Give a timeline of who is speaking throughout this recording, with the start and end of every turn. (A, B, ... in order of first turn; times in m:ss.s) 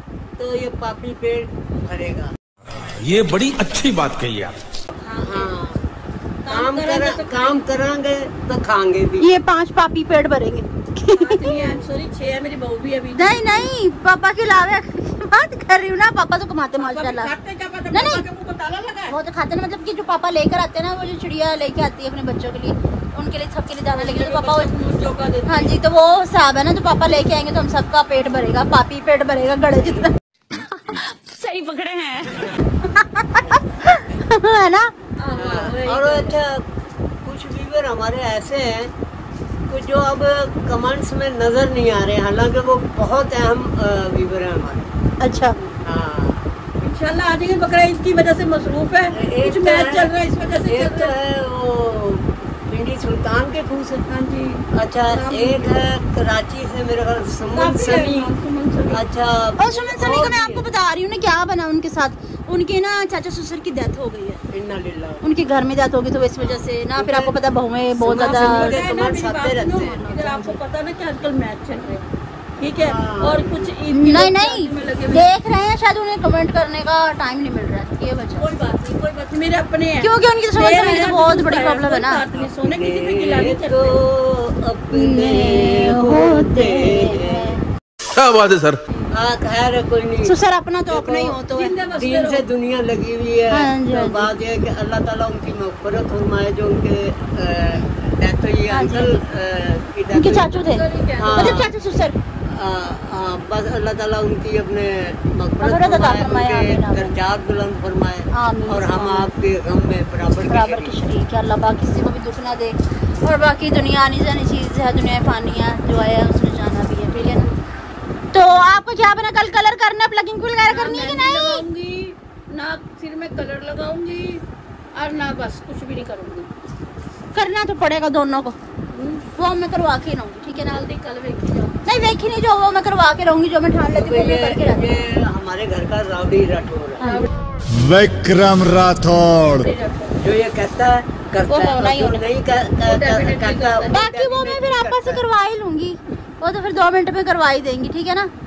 0:00.4-0:02.3 A
0:03.0-0:04.6 B
0:05.0-0:05.5 C
0:05.2-0:05.8 A
0:06.4-0:07.6 C
0:06.5-0:09.3 A
0:09.2-0:11.6 D
0:11.1-0:13.7 C
0:13.2-0:17.3 D
0:16.8-0:19.2 C
0:17.9-0:18.2 D
0:19.1-0:24.7 D
0:23.9-0:25.8 C
0:25.5-0:30.1 D
0:30.9-0:32.3 D
0:33.0-0:34.9 D
0:35.2-0:36.4 C
0:35.3-0:36.6 A
0:37.2-0:38.9 A
0:39.7-0:44.9 A
0:45.2-0:45.6 D
0:45.8-0:46.4 A
0:46.8-0:51.1 C
0:49.1-0:54.0 A
0:54.1-0:55.7 C
0:54.7-0:58.3 A
0:57.5-0:59.0 C
0:58.9-1:00.7 A
0:59.6-1:04.4 D
1:04.5-1:05.2 A
1:05.2-1:08.8 D
1:06.9-1:07.4 A
1:08.0-1:10.0 A
1:08.2-1:12.0 C
1:09.8-1:10.6 D
1:12.6-1:15.3 C
1:12.8-1:13.7 A
1:13.9-1:18.5 D
1:18.4-1:24.0 C
1:20.0-1:22.2 D
1:22.6-1:27.6 A
1:24.9-1:27.6 D
1:28.2-1:28.8 B
1:29.1-1:30.3 A
1:30.2-1:31.8 D
1:30.9-1:31.4 A
1:31.5-1:32.4 C
1:31.9-1:40.5 A
1:33.5-1:34.3 D
1:38.7-1:39.2 D
1:40.1-1:42.2 D
1:40.5-1:41.5 C
1:41.2-1:41.7 A
1:42.5-1:51.0 A
1:45.6-1:47.1 D
1:48.3-1:49.3 D
1:50.5-1:57.5 D
1:58.3-2:01.6 D
2:00.7-2:04.4 C
2:05.0-2:06.5 C
2:07.3-2:08.6 D
2:08.9-2:09.3 C
2:09.4-2:10.8 D
2:10.6-2:11.8 C
2:11.8-2:15.0 D
2:13.9-2:17.0 A
2:17.0-2:17.3 D
2:17.7-2:19.6 E
2:19.4-2:20.2 C
2:20.2-2:25.2 A
2:21.5-2:22.3 D
2:22.8-2:24.0 C
2:23.9-2:28.3 D